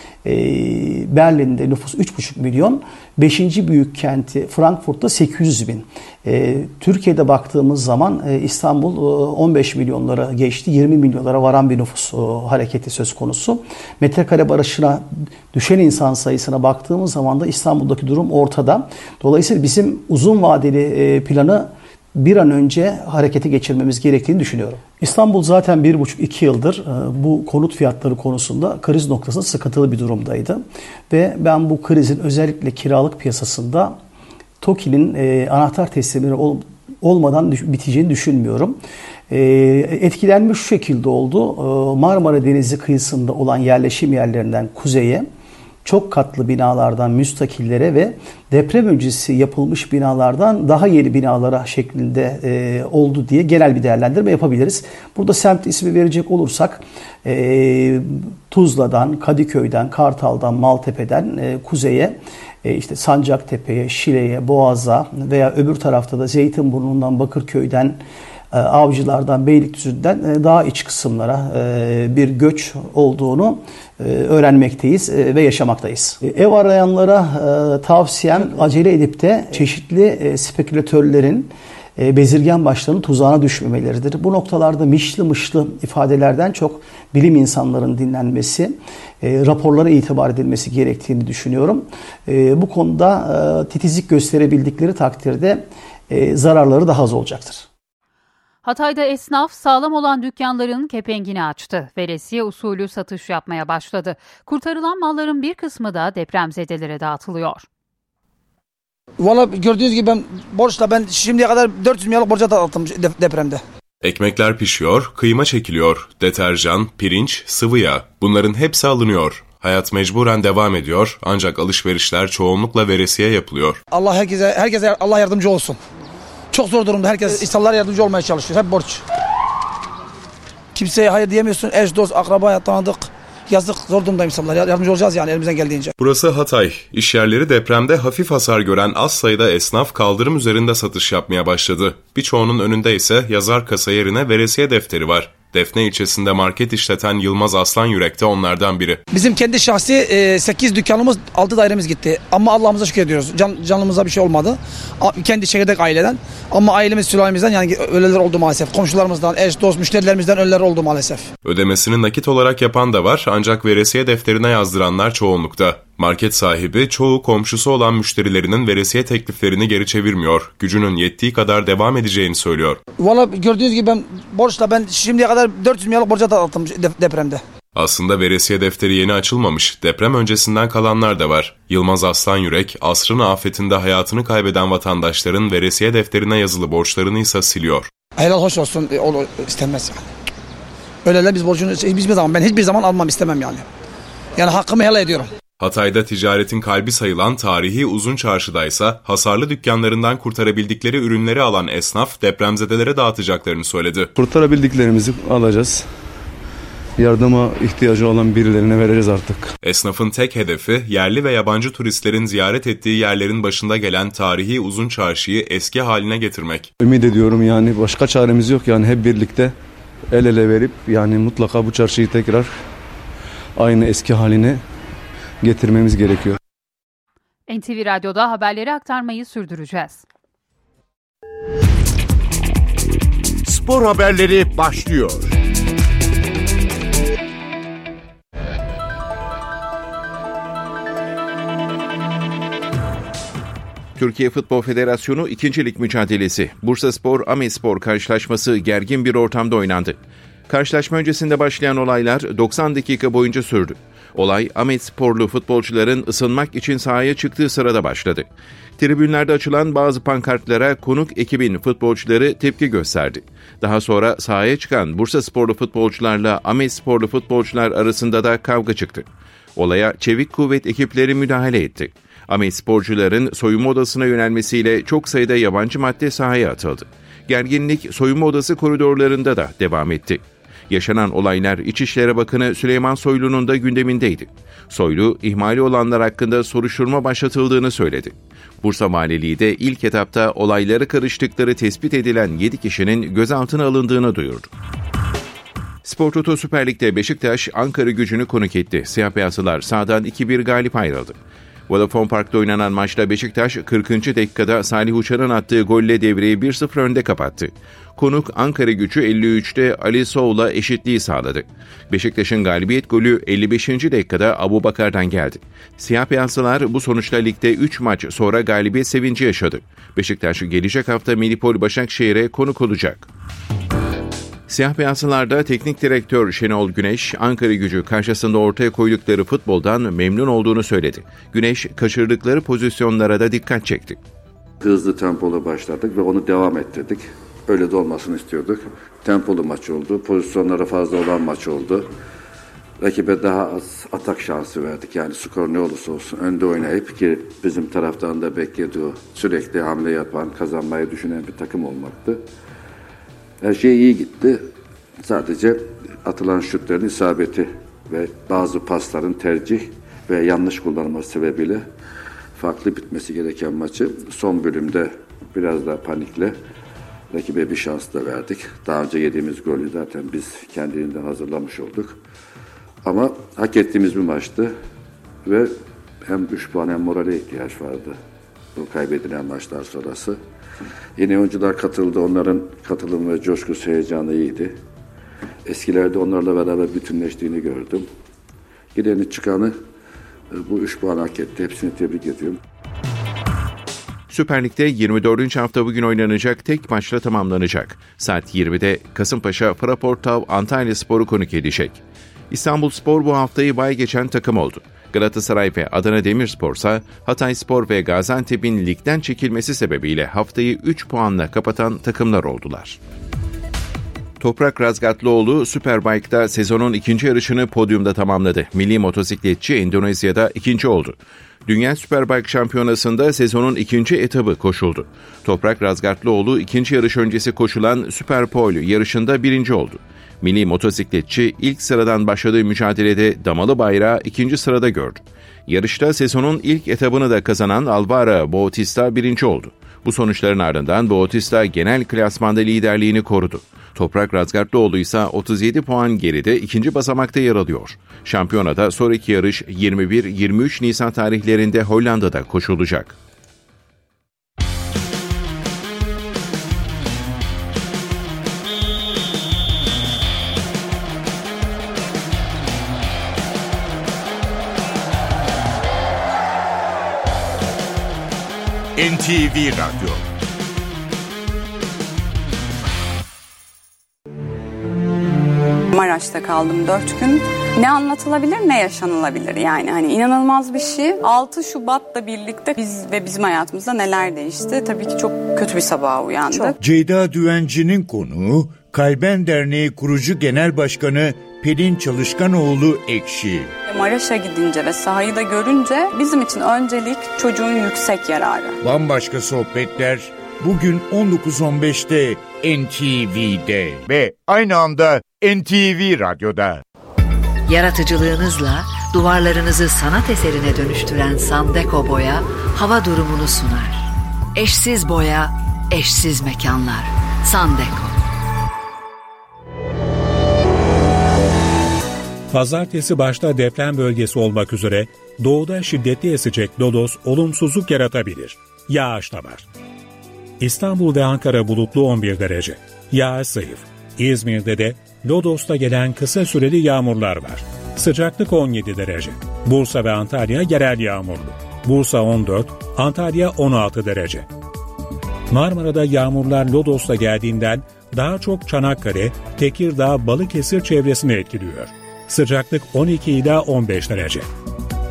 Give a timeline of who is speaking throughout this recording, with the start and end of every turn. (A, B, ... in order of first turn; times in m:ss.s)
0:00.2-0:34.0 A
0:34.6-0:45.3 A
0:45.8-1:08.0 A
1:08.5-1:37.7 A
1:38.6-1:47.7 B
1:49.2-1:53.6 C
1:54.0-2:03.8 D
2:03.9-2:05.8 C
2:06.5-2:09.0 C
2:10.8-2:15.9 C
2:16.0-2:29.0 D
2:29.1-2:41.3 C
2:41.4-2:52.8 D
2:53.0-2:57.4 C
2:57.8-3:07.9 D
3:08.2-3:10.1 C
3:11.0-3:13.7 C
3:14.4-3:15.3 C
3:15.6-3:24.1 D
3:24.2-3:25.9 E
3:27.0-3:29.5 E
3:29.6-3:36.7 D
3:36.8-3:39.6 E
3:40.1-3:42.6 E
3:43.6-3:44.6 E
3:45.4-3:46.4 E
3:47.5-3:50.1 B
3:53.5-3:55.4 F
4:04.0-4:54.5 G
4:55.8-5:01.2 G
5:01.7-5:23.1 G
5:24.5-5:34.0 G
5:34.6-5:41.9 H
5:42.8-5:52.3 H
5:53.4-5:54.5 H
5:55.0-6:01.7 H
6:02.4-6:06.4 H
6:07.1-6:12.0 H
6:12.8-6:14.5 H
6:15.2-6:18.0 H
6:18.6-6:20.2 H
6:21.0-6:24.6 H
6:25.5-6:27.9 H
6:28.7-6:29.6 H
6:30.3-6:32.4 H
6:34.1-6:52.8 G
6:54.2-7:33.0 G
7:48.8-7:50.0 F
7:55.7-8:06.5 I
8:06.6-8:13.6 F
8:13.7-8:18.6 I
8:18.6-8:26.6 F
8:27.5-8:38.0 J
8:42.3-8:49.5 K
8:50.4-9:04.3 K
9:05.3-9:14.3 K